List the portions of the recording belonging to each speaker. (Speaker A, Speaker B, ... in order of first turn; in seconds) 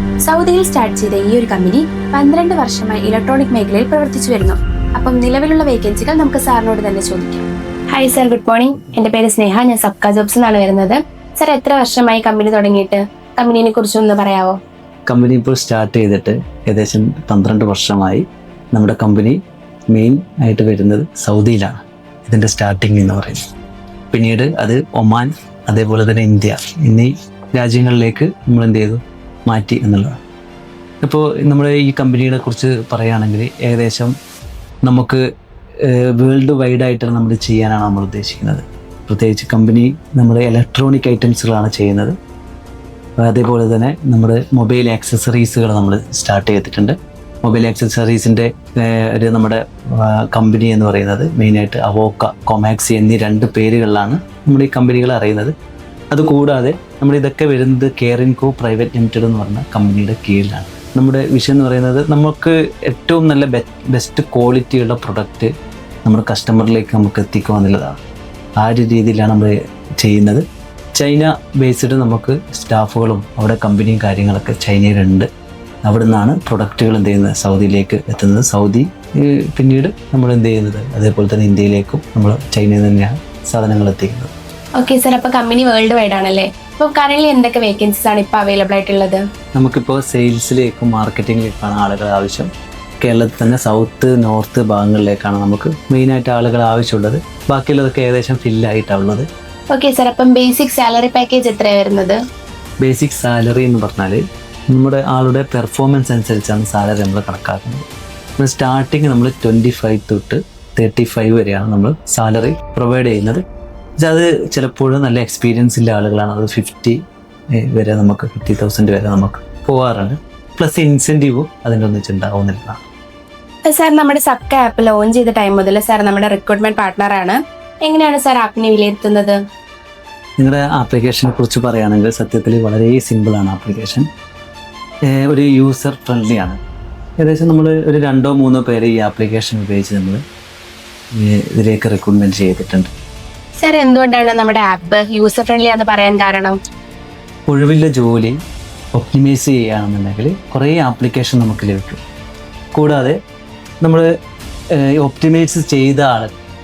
Speaker A: 0.3-14.6, 84.8-89.2, 99.7-102.2, 123.7-129.4, 143.6-146.6
Speaker B: 15.1-19.4, 19.9-21.7, 22.3-23.4, 24.1-30.2, 31.0-34.1, 34.9-35.2, 35.8-42.1, 43.2-55.5, 56.1-65.5, 66.1-68.0, 68.6-75.3, 75.8-84.3, 89.6-92.5, 93.0-99.3, 102.8-104.2, 104.7-107.9, 108.4-113.4, 114.0-117.0, 117.6-122.8, 130.4-134.1, 135.1-136.6, 137.2-140.2, 141.2-142.9, 147.5-148.4, 148.9-152.0, 152.7-153.2, 154.8-156.3